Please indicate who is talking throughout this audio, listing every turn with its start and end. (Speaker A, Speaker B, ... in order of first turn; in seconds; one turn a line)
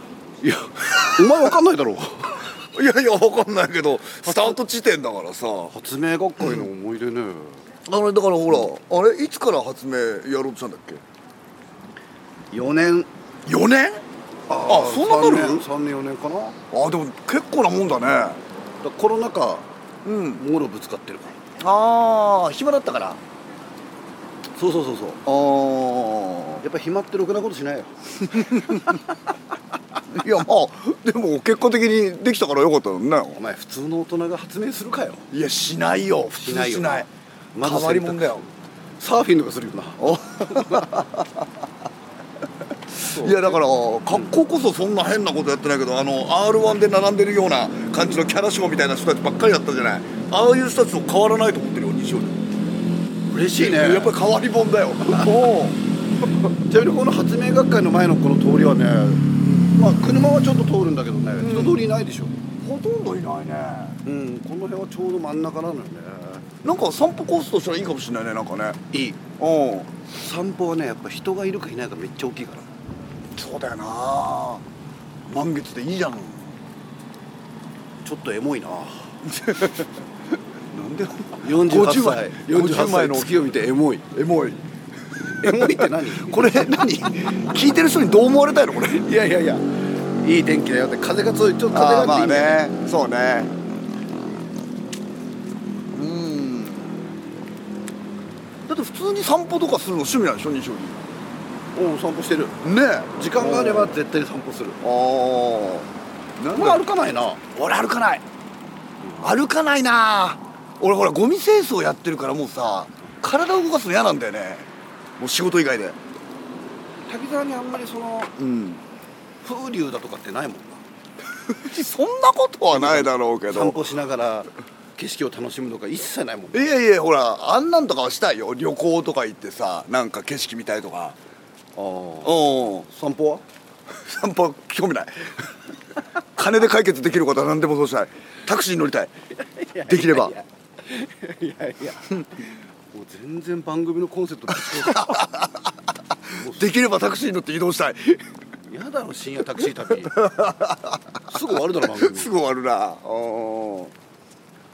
Speaker A: 0.4-2.5
Speaker B: 0.9-1.5
Speaker B: 2.7-5.7
Speaker A: 5.7-7.7
Speaker B: 7.8-11.0
Speaker A: 12.5-13.1
Speaker B: 13.4-14.0
Speaker A: 14.5-16.6
Speaker B: 14.7-15.7
Speaker B: 16.7-18.4
Speaker A: 18.8-19.7
Speaker B: 20.0-20.4
Speaker A: 20.4-21.4
Speaker B: 21.6-23.2
Speaker A: 24.5-25.2
Speaker B: 25.2-26.6
Speaker A: 26.6-28.9
Speaker B: 28.3-28.9
Speaker B: 30.1-33.4
Speaker A: 33.4-35.3
Speaker B: 35.3-37.1
Speaker A: 36.4-38.5
Speaker B: 37.6-38.5
Speaker A: 39.0-41.0
Speaker B: 40.0-41.5
Speaker A: 43.0-43.6
Speaker B: 43.0-52.4
Speaker A: 53.3-54.1
Speaker B: 53.5-55.8
Speaker A: 55.0-55.3
Speaker A: 56.6-62.4
Speaker B: 59.4-59.7
Speaker B: 61.4-61.8
Speaker B: 62.6-64.0
Speaker A: 64.0-66.5
Speaker B: 66.6-68.8
Speaker A: 68.9-69.2
Speaker B: 69.4-69.9
Speaker A: 70.1-72.7
Speaker B: 73.3-74.6
Speaker B: 75.3-76.6
Speaker A: 78.0-79.1
Speaker B: 79.2-79.9
Speaker B: 80.7-83.4
Speaker A: 81.4-84.1
Speaker B: 84.1-84.6
Speaker B: 85.2-89.0
Speaker A: 85.4-86.8
Speaker A: 88.9-92.6
Speaker B: 91.7-93.5
Speaker B: 95.9-97.1
Speaker B: 98.7-101.1
Speaker A: 101.7-102.6
Speaker B: 102.6-103.9
Speaker A: 103.2-104.8
Speaker B: 104.8-106.8
Speaker A: 106.5-107.4
Speaker B: 107.5-108.2
Speaker A: 109.0-109.3
Speaker B: 109.2-116.0
Speaker A: 117.1-118.3
Speaker B: 118.4-118.8
Speaker A: 119.4-120.8
Speaker B: 121.4-123.8
Speaker A: 122.7-126.7
Speaker B: 126.5-131.2
Speaker A: 131.8-133.4
Speaker B: 132.2-132.9
Speaker B: 133.9-135.5
Speaker B: 136.4-139.1
Speaker A: 139.4-142.1
Speaker B: 139.8-140.3
Speaker A: 142.9-145.3
Speaker B: 144.6-145.6
Speaker A: 146.3-146.7
Speaker B: 146.4-148.3
Speaker A: 148.7-150.2
Speaker B: 149.9-153.9
Speaker A: 151.3-152.3